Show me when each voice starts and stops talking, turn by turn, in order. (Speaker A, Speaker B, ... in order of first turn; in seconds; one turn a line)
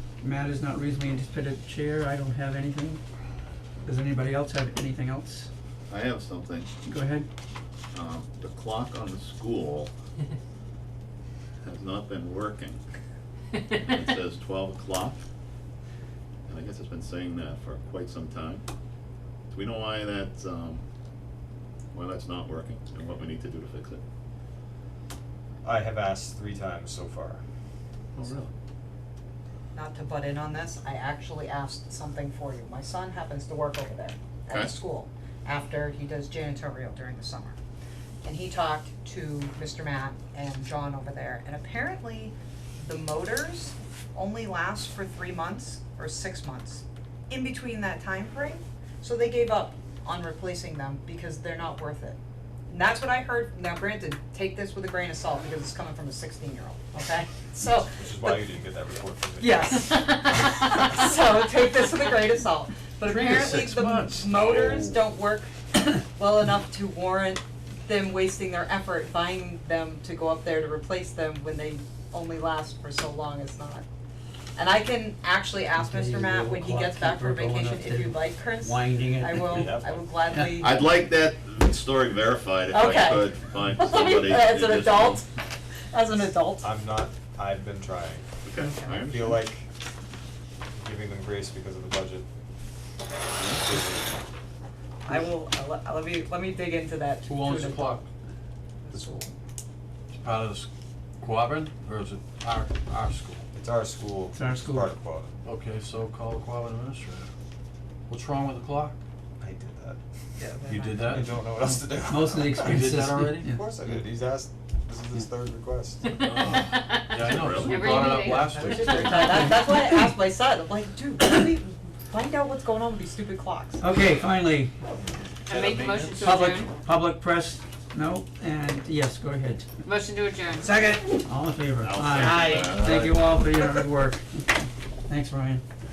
Speaker A: 0.2-3.0
Speaker A: 3.9-5.5
Speaker B: 5.9-6.7
Speaker A: 6.8-7.3
Speaker B: 7.9-9.9
Speaker B: 11.6-12.8
Speaker B: 13.7-15.2
Speaker B: 16.5-18.6
Speaker B: 19.5-20.8
Speaker B: 21.9-24.0
Speaker C: 25.6-27.4
Speaker D: 29.7-37.6
Speaker B: 34.5-34.8
Speaker D: 38.2-58.5
Speaker C: 57.8-59.9
Speaker D: 59.4-73.8
Speaker E: 63.0-65.0
Speaker D: 74.6-80.8
Speaker A: 75.8-80.6
Speaker C: 79.4-80.1
Speaker B: 80.6-85.2
Speaker D: 82.7-85.3
Speaker D: 85.9-86.7
Speaker C: 86.6-88.3
Speaker B: 88.5-89.4
Speaker D: 88.6-89.1
Speaker C: 89.0-89.7
Speaker C: 90.8-92.3
Speaker B: 93.4-93.7
Speaker C: 93.6-94.2
Speaker D: 95.0-98.0
Speaker E: 97.3-98.1
Speaker D: 98.8-99.3
Speaker E: 100.2-100.7
Speaker E: 101.2-103.4
Speaker C: 103.5-105.3
Speaker A: 104.3-104.9
Speaker E: 105.5-107.3
Speaker E: 108.1-109.0
Speaker C: 109.4-110.0
Speaker D: 110.4-111.2
Speaker C: 110.7-116.1
Speaker E: 110.8-111.2
Speaker A: 112.1-113.6
Speaker E: 112.7-113.5
Speaker E: 116.2-119.2
Speaker F: 116.8-119.0
Speaker B: 117.1-117.8
Speaker D: 118.3-123.8
Speaker A: 118.9-120.1
Speaker A: 123.8-124.7
Speaker F: 125.5-126.7
Speaker E: 125.5-126.3
Speaker A: 126.2-129.7
Speaker F: 129.8-130.9
Speaker D: 130.6-131.1
Speaker A: 131.2-135.6
Speaker B: 131.8-133.3
Speaker D: 132.2-132.9